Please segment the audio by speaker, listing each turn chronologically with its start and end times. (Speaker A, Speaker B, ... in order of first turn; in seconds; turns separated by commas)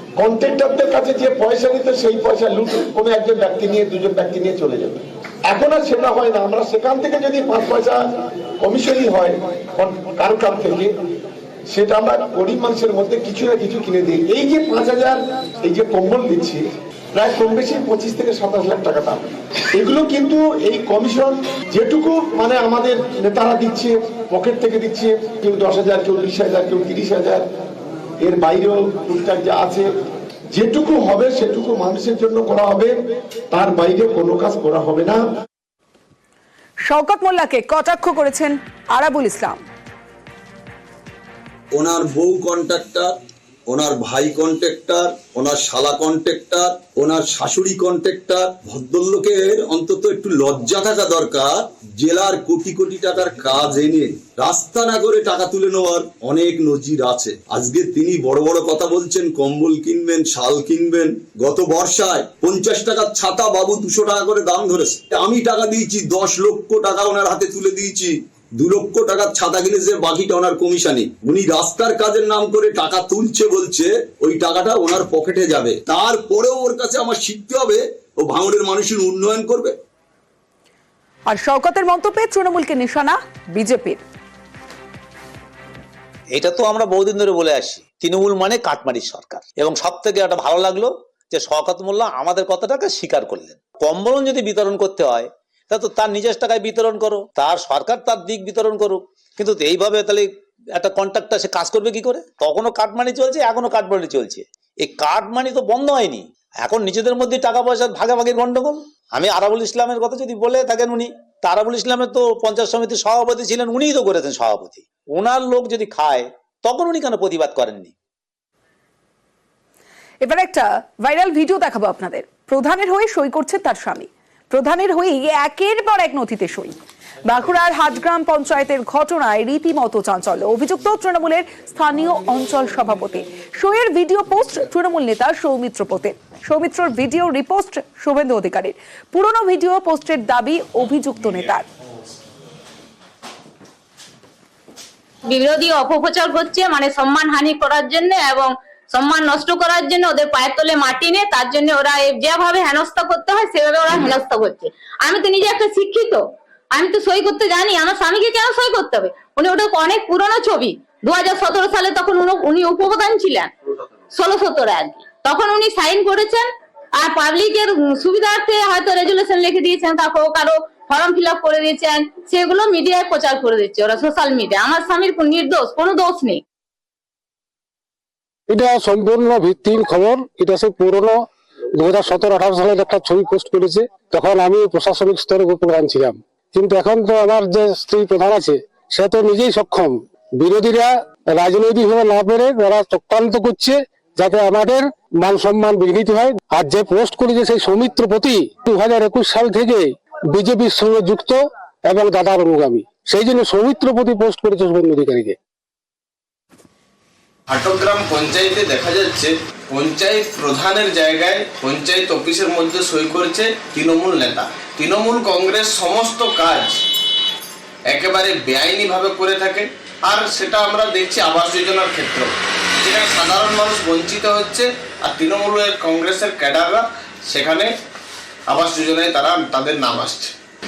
Speaker A: 0.2-8.0, Speaker A: 8.6-10.9, Speaker A: 11.7-16.6, Speaker A: 17.2-27.4, Speaker A: 28.2-29.9, Speaker A: 30.5-33.0, Speaker A: 33.5-35.2, Speaker B: 36.9-39.6, Speaker C: 41.7-43.1, Speaker C: 43.7-79.8, Speaker B: 81.3-84.0, Speaker D: 86.3-117.9, Speaker B: 120.2-141.7, Speaker E: 145.3-156.2, Speaker E: 156.7-163.5, Speaker E: 164.1-166.4, Speaker E: 167.0-176.4, Speaker F: 178.5-181.2, Speaker F: 181.8-205.4, Speaker G: 207.5-216.8, Speaker G: 217.9-227.7, Speaker G: 228.5-230.3